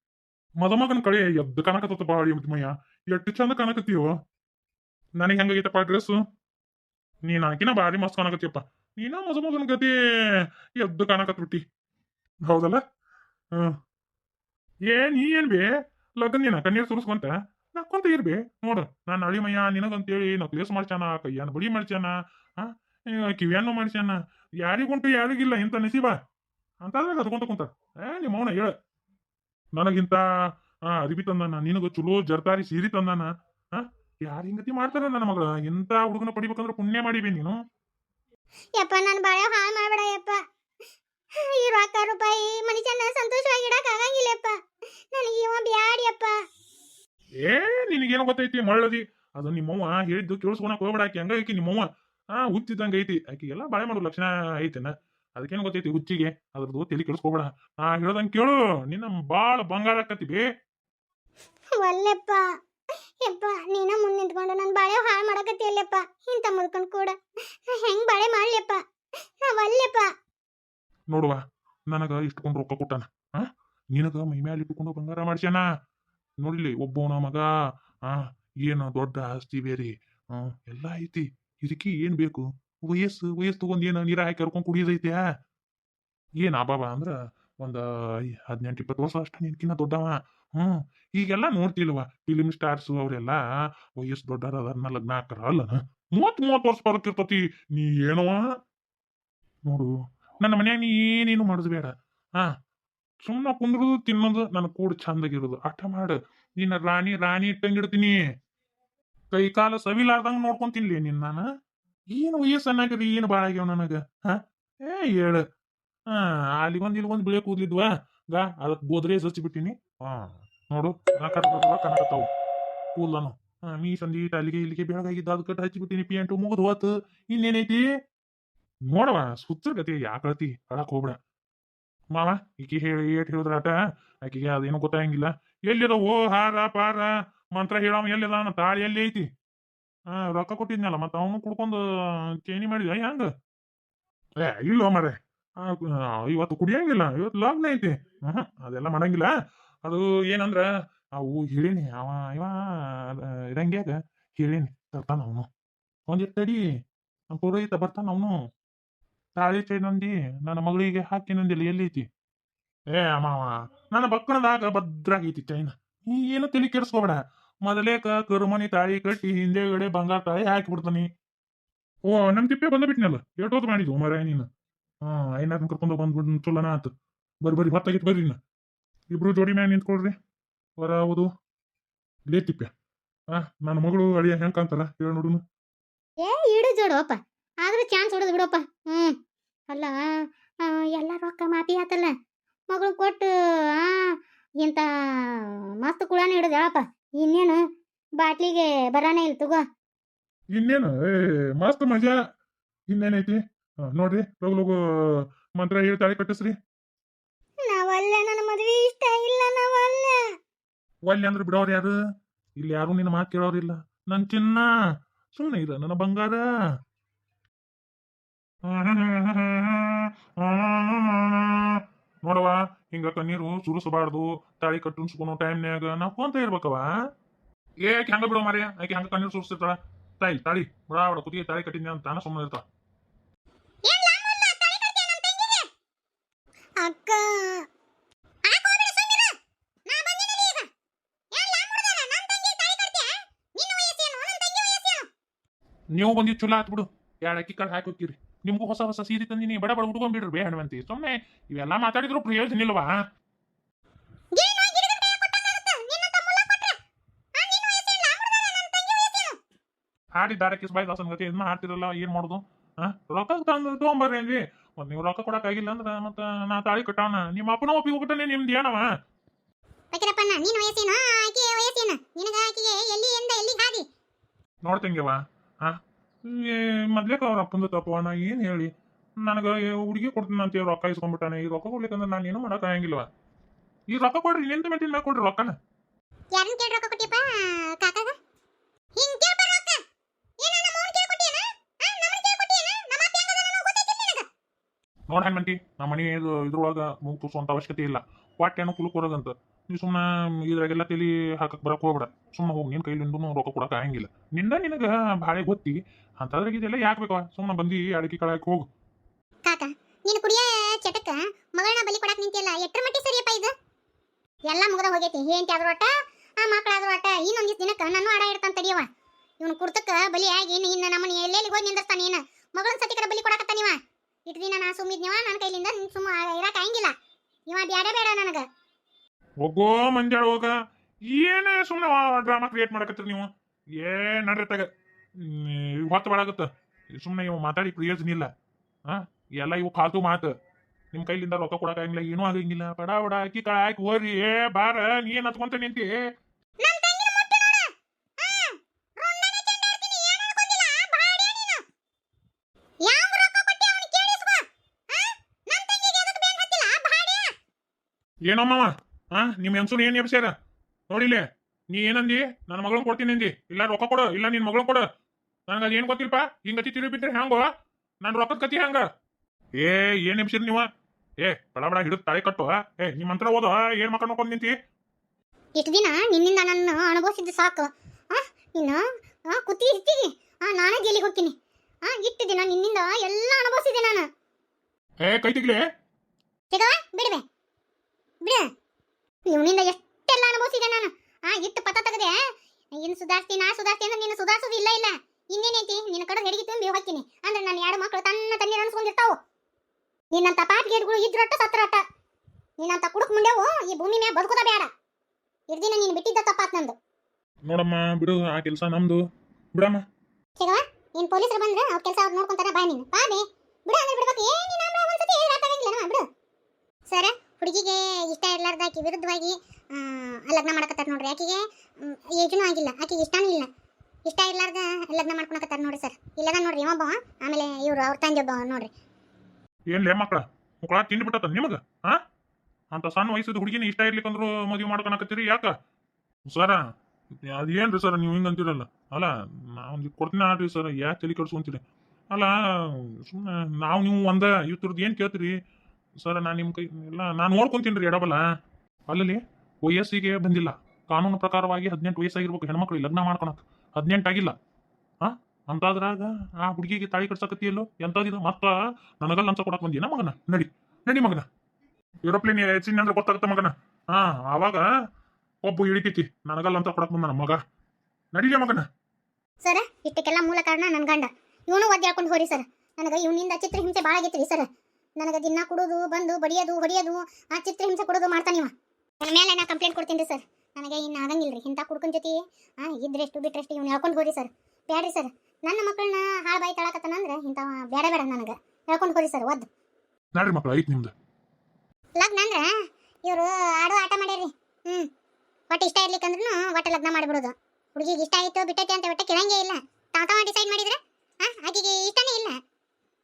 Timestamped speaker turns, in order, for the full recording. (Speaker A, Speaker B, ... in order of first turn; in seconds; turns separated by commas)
Speaker A: 0.6-4.2, Speaker A: 5.2-6.2, Speaker A: 7.2-11.6, Speaker A: 12.4-12.8, Speaker A: 13.5-13.8, Speaker A: 14.9-26.2, Speaker A: 26.8-28.7, Speaker A: 29.7-30.2, Speaker A: 30.9-37.6, Speaker B: 38.8-40.4, Speaker B: 41.4-44.6, Speaker B: 45.1-46.4, Speaker A: 47.4-60.5, Speaker B: 61.8-62.5, Speaker B: 63.2-67.1, Speaker B: 67.7-68.8, Speaker B: 69.4-70.1, Speaker A: 71.1-75.6, Speaker A: 76.4-77.5, Speaker A: 78.0-85.2, Speaker A: 86.4-98.5, Speaker A: 99.6-102.5, Speaker A: 103.2-108.2, Speaker A: 109.3-111.5, Speaker A: 112.1-115.4, Speaker A: 116.1-122.3, Speaker A: 122.9-127.8, Speaker A: 128.9-131.2, Speaker A: 132.1-139.3, Speaker A: 140.1-143.3, Speaker A: 144.4-149.3, Speaker A: 149.8-155.5, Speaker A: 156.1-156.6, Speaker A: 157.3-158.4, Speaker A: 159.3-162.1, Speaker A: 162.9-171.1, Speaker A: 172.1-174.5, Speaker A: 175.0-176.9, Speaker A: 177.4-178.4, Speaker A: 179.1-180.1, Speaker A: 180.8-181.3, Speaker A: 182.3-182.7, Speaker A: 183.3-185.4, Speaker B: 186.2-189.2, Speaker B: 189.7-192.1, Speaker B: 192.7-197.6, Speaker B: 198.2-199.6, Speaker A: 200.5-202.2, Speaker A: 202.9-206.5, Speaker B: 207.6-210.2, Speaker A: 211.0-211.9, Speaker A: 212.6-214.7, Speaker A: 215.3-216.4, Speaker A: 218.6-226.9, Speaker A: 227.8-232.6, Speaker B: 233.8-235.7, Speaker B: 236.8-237.7, Speaker B: 238.4-240.7, Speaker B: 241.3-245.1, Speaker A: 245.9-253.0, Speaker B: 254.3-256.8, Speaker B: 257.3-259.4, Speaker A: 260.1-268.9, Speaker B: 269.9-273.8, Speaker A: 274.6-283.1, Speaker A: 283.9-285.6, Speaker B: 286.3-288.1, Speaker B: 289.0-289.8, Speaker B: 290.4-294.3, Speaker A: 295.1-308.7, Speaker B: 309.4-313.5, Speaker B: 314.5-318.9, Speaker B: 319.4-326.9, Speaker B: 327.5-328.4, Speaker A: 329.4-330.5, Speaker A: 331.1-334.6, Speaker A: 335.2-338.3, Speaker A: 338.9-340.3, Speaker A: 340.9-345.9, Speaker B: 346.6-351.6, Speaker B: 352.8-357.3, Speaker A: 358.2-360.3, Speaker A: 360.9-364.9, Speaker A: 365.5-367.5, Speaker A: 368.0-368.9, Speaker A: 369.6-370.7, Speaker A: 371.2-374.5, Speaker B: 375.6-384.1, Speaker A: 385.0-385.6, Speaker B: 386.5-387.2, Speaker B: 389.3-392.1, Speaker B: 392.8-399.2, Speaker B: 400.1-401.8, Speaker B: 402.6-404.7, Speaker B: 405.5-406.8, Speaker A: 407.4-409.0, Speaker A: 409.5-409.8, Speaker B: 410.4-416.0, Speaker B: 416.9-423.5, Speaker B: 424.1-428.7, Speaker A: 429.7-432.0, Speaker A: 432.7-435.5, Speaker A: 436.3-436.6, Speaker A: 437.2-445.3, Speaker A: 446.0-448.2, Speaker A: 448.9-454.3, Speaker A: 455.0-461.2, Speaker A: 462.0-464.6, Speaker A: 465.4-467.4, Speaker A: 468.1-468.7, Speaker B: 469.4-474.4, Speaker B: 475.0-489.5, Speaker A: 490.1-490.9, Speaker B: 492.0-492.5, Speaker B: 493.0-494.9, Speaker B: 495.5-502.4